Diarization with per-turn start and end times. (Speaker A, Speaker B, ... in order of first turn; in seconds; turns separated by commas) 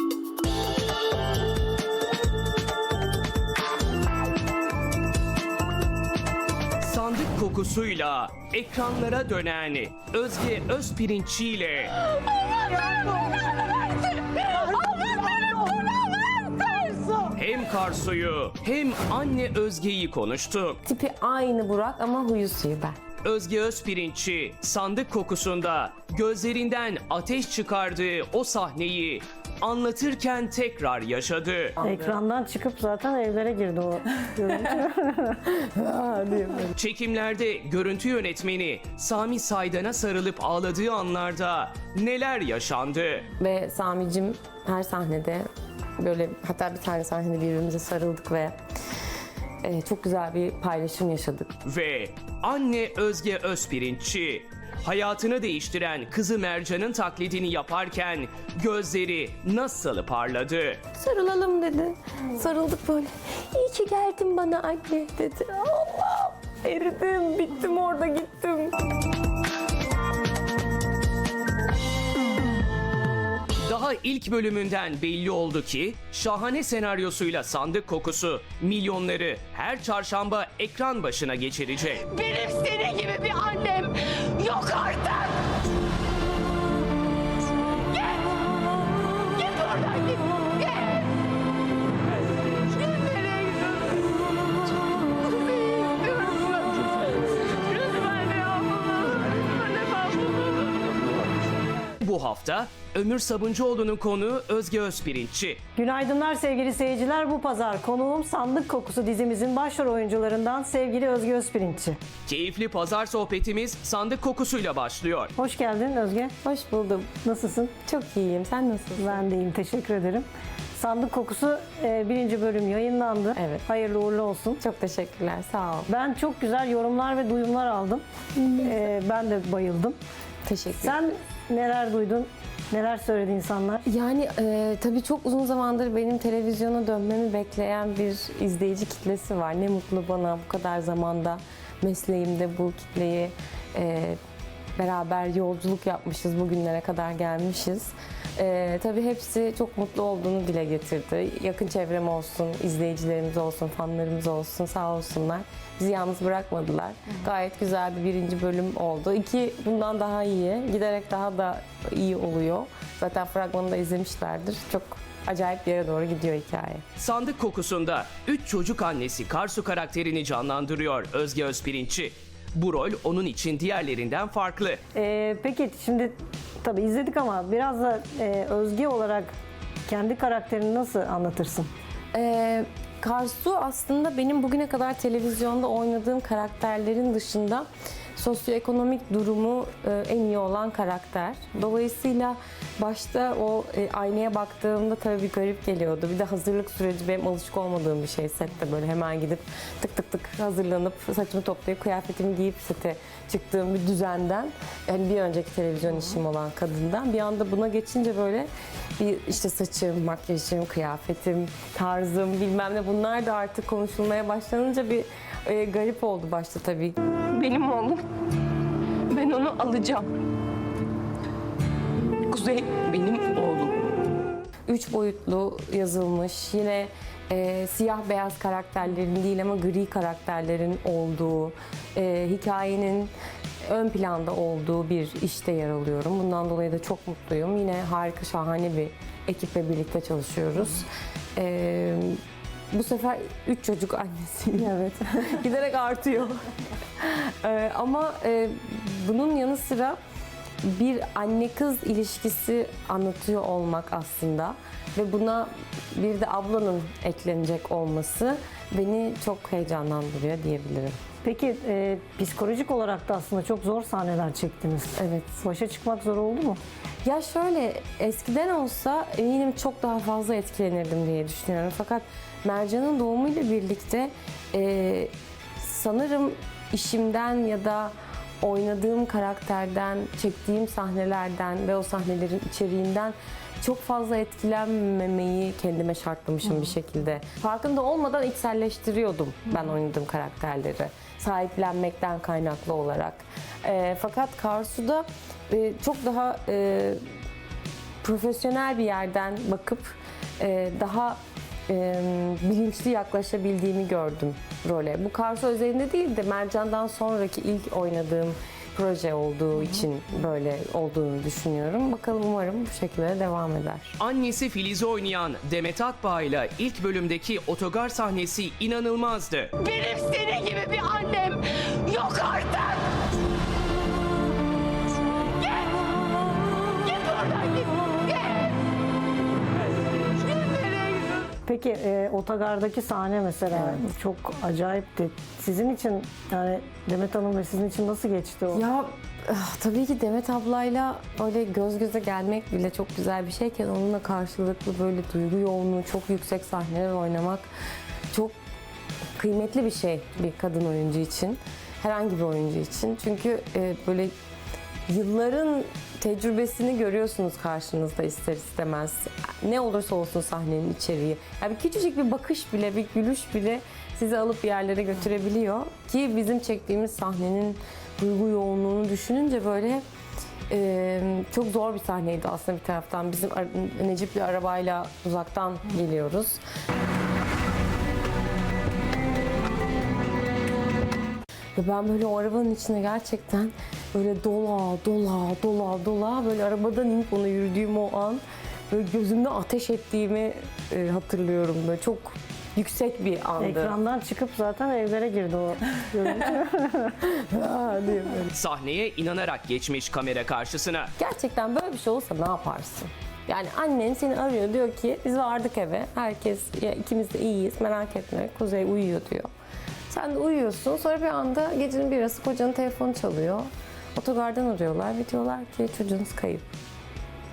Speaker A: 6.8-11.9, Speaker B: 15.0-15.5, Speaker A: 17.4-20.8, Speaker C: 20.9-23.0, Speaker A: 23.2-31.8, Speaker B: 31.8-35.4, Speaker C: 35.5-36.7, Speaker A: 36.8-43.3, Speaker C: 43.4-45.5, Speaker C: 46.0-48.6, Speaker C: 49.6-51.5, Speaker A: 51.6-60.8, Speaker C: 61.0-68.7, Speaker A: 73.7-82.2, Speaker D: 82.2-85.3, Speaker D: 89.4-90.9, Speaker D: 92.9-93.6, Speaker D: 95.5-96.5, Speaker D: 97.9-98.9, Speaker D: 99.7-100.2, Speaker A: 102.0-105.6, Speaker B: 105.8-112.0, Speaker A: 112.3-115.3, Speaker B: 115.4-116.3, Speaker C: 116.4-117.1, Speaker B: 117.2-117.7, Speaker C: 117.8-119.2, Speaker B: 119.0-124.6, Speaker C: 123.3-123.7, Speaker C: 124.6-125.9, Speaker B: 125.9-130.0, Speaker C: 130.4-131.0, Speaker B: 130.8-133.8, Speaker C: 133.8-144.2, Speaker C: 144.8-166.8, Speaker A: 167.0-174.8, Speaker B: 174.9-179.3, Speaker B: 179.9-181.7, Speaker C: 182.1-218.0, Speaker C: 219.1-220.1, Speaker C: 222.3-223.9, Speaker C: 224.7-233.1, Speaker C: 233.7-242.2, Speaker C: 242.7-246.4, Speaker B: 244.6-245.3, Speaker C: 247.0-250.0, Speaker C: 250.6-261.0, Speaker B: 261.2-266.6, Speaker C: 265.0-265.4, Speaker C: 267.0-297.0, Speaker C: 298.0-313.9, Speaker A: 314.0-319.5, Speaker D: 319.6-322.8, Speaker D: 326.9-328.4, Speaker B: 331.5-338.6, Speaker C: 338.5-347.5, Speaker C: 349.2-354.1, Speaker C: 354.9-369.8, Speaker C: 370.5-376.4, Speaker C: 381.6-393.8, Speaker B: 393.4-396.9, Speaker C: 397.0-398.3, Speaker A: 398.3-400.9, Speaker C: 401.0-409.3, Speaker C: 409.9-416.5